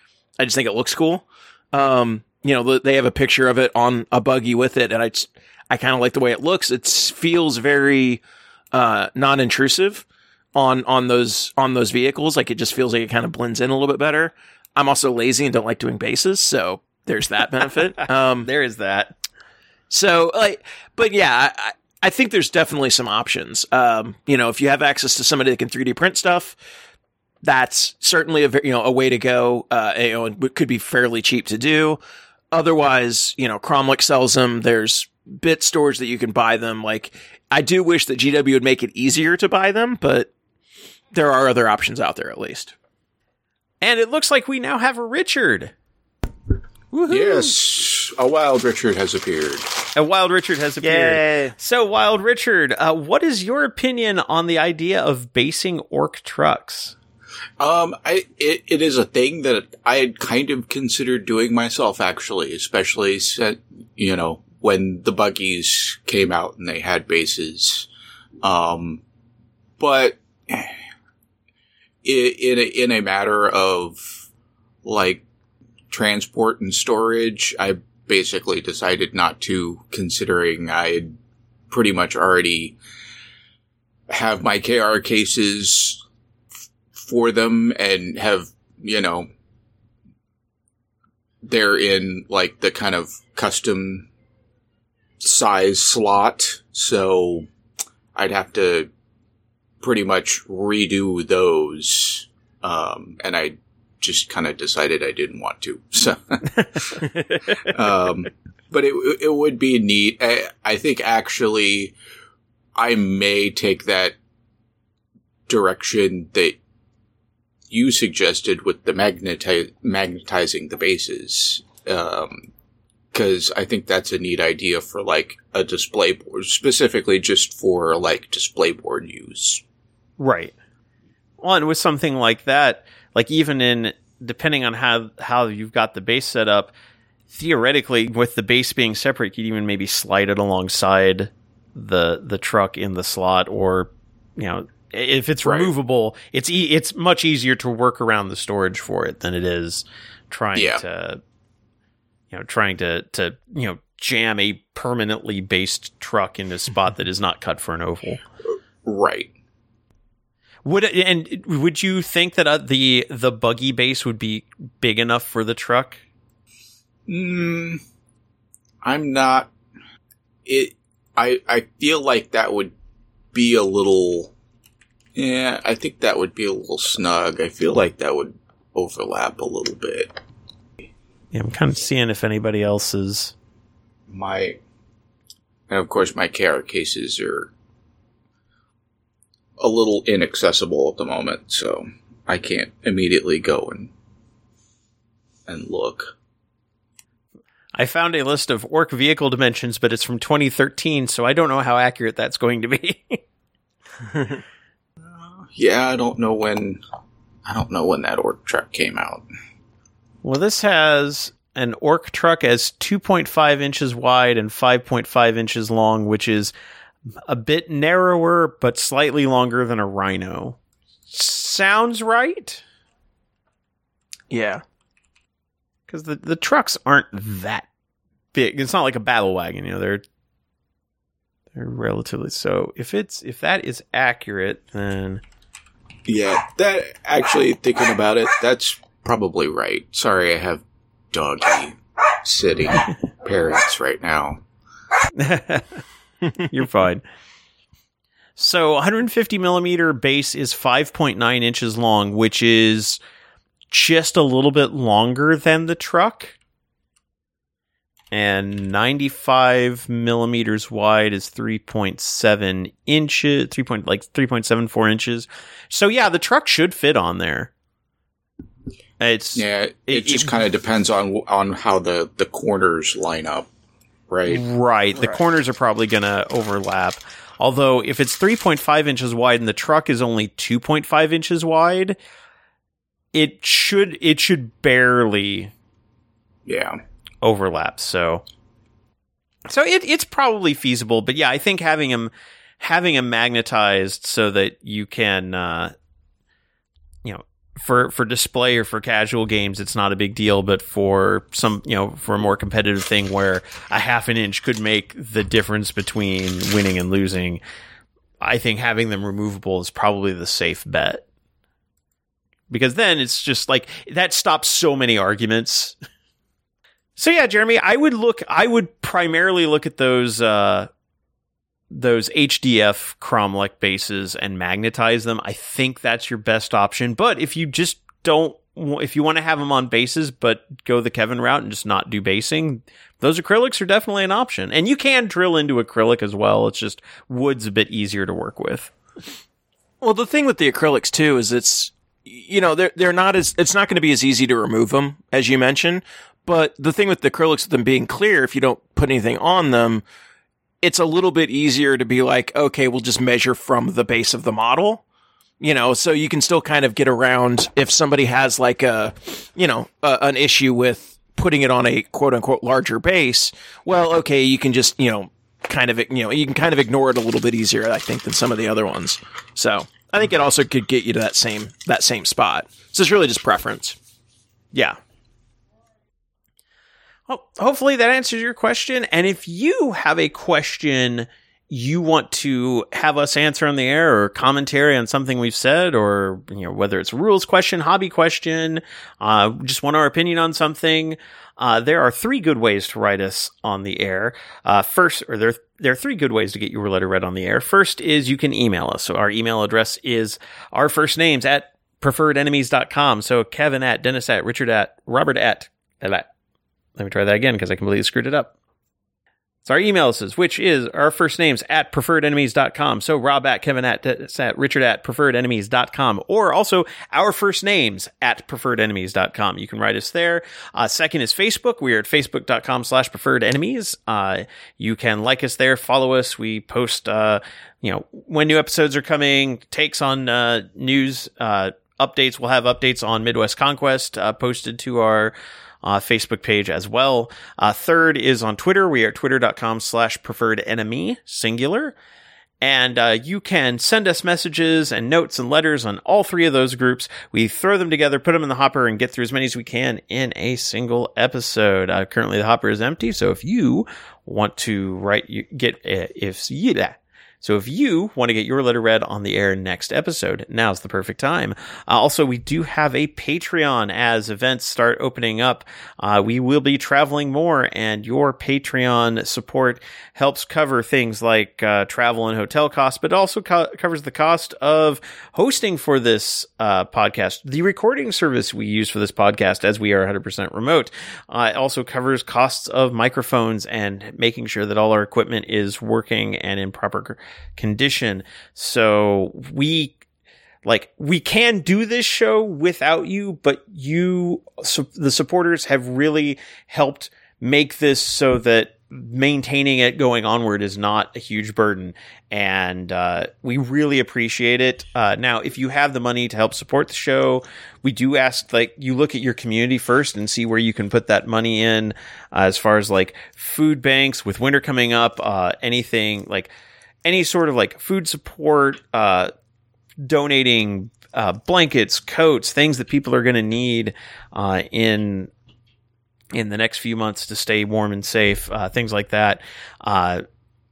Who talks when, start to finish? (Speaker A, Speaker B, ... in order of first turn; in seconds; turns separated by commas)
Speaker A: 0.4-18.5, Speaker B: 18.0-19.1, Speaker A: 19.9-26.6, Speaker A: 27.4-32.0, Speaker A: 32.5-40.3, Speaker A: 41.1-42.7, Speaker B: 43.8-45.7, Speaker A: 46.9-47.5, Speaker C: 47.1-49.7, Speaker B: 49.9-56.9, Speaker A: 50.8-51.5, Speaker C: 57.6-67.9, Speaker C: 68.4-69.0, Speaker C: 69.8-70.7, Speaker C: 72.0-74.2, Speaker C: 74.8-75.2, Speaker C: 75.9-81.2, Speaker C: 81.7-82.8, Speaker C: 84.1-86.0, Speaker C: 87.0-89.3, Speaker C: 91.4-94.1, Speaker C: 95.2-97.5, Speaker C: 98.1-98.9, Speaker C: 99.8-107.0, Speaker B: 106.6-107.8, Speaker C: 107.6-111.9, Speaker C: 112.8-114.1, Speaker C: 115.5-116.6, Speaker C: 117.7-122.5, Speaker C: 123.1-129.6, Speaker B: 130.2-130.5, Speaker B: 131.4-136.7, Speaker B: 137.3-151.2, Speaker C: 145.4-145.7, Speaker C: 150.5-150.8, Speaker B: 152.3-158.2, Speaker C: 158.8-159.3, Speaker B: 160.6-166.0, Speaker C: 167.1-167.8, Speaker C: 168.8-169.5, Speaker C: 170.4-172.7, Speaker C: 173.3-174.3, Speaker C: 175.2-180.2, Speaker B: 181.3-183.3, Speaker C: 184.1-184.6, Speaker C: 185.7-187.5, Speaker C: 189.6-193.9, Speaker C: 195.5-196.1, Speaker B: 197.8-203.2, Speaker C: 205.5-206.8, Speaker C: 207.5-209.2, Speaker B: 210.2-216.5, Speaker B: 217.2-220.6, Speaker B: 221.1-222.6, Speaker A: 224.3-224.6, Speaker B: 225.9-227.7, Speaker B: 228.3-230.0, Speaker B: 231.5-235.2, Speaker C: 236.1-244.4, Speaker B: 245.2-245.8, Speaker B: 246.4-247.0, Speaker B: 248.4-253.0, Speaker B: 253.7-256.4, Speaker B: 258.1-267.5, Speaker B: 269.0-270.4, Speaker C: 269.3-273.5, Speaker C: 274.1-274.4, Speaker B: 274.3-281.9, Speaker B: 283.1-285.5, Speaker C: 286.4-286.8, Speaker B: 287.2-288.2, Speaker B: 289.5-295.7, Speaker B: 297.0-307.4, Speaker B: 308.2-311.0, Speaker B: 312.5-315.7, Speaker B: 317.0-320.7, Speaker B: 321.7-338.7, Speaker A: 339.8-349.8, Speaker A: 350.6-354.8, Speaker A: 355.4-373.8, Speaker B: 377.1-406.1, Speaker B: 406.8-408.3, Speaker B: 409.4-441.7, Speaker B: 442.4-489.8, Speaker B: 490.4-516.3, Speaker B: 516.8-519.1, Speaker B: 519.8-525.1, Speaker B: 526.1-530.0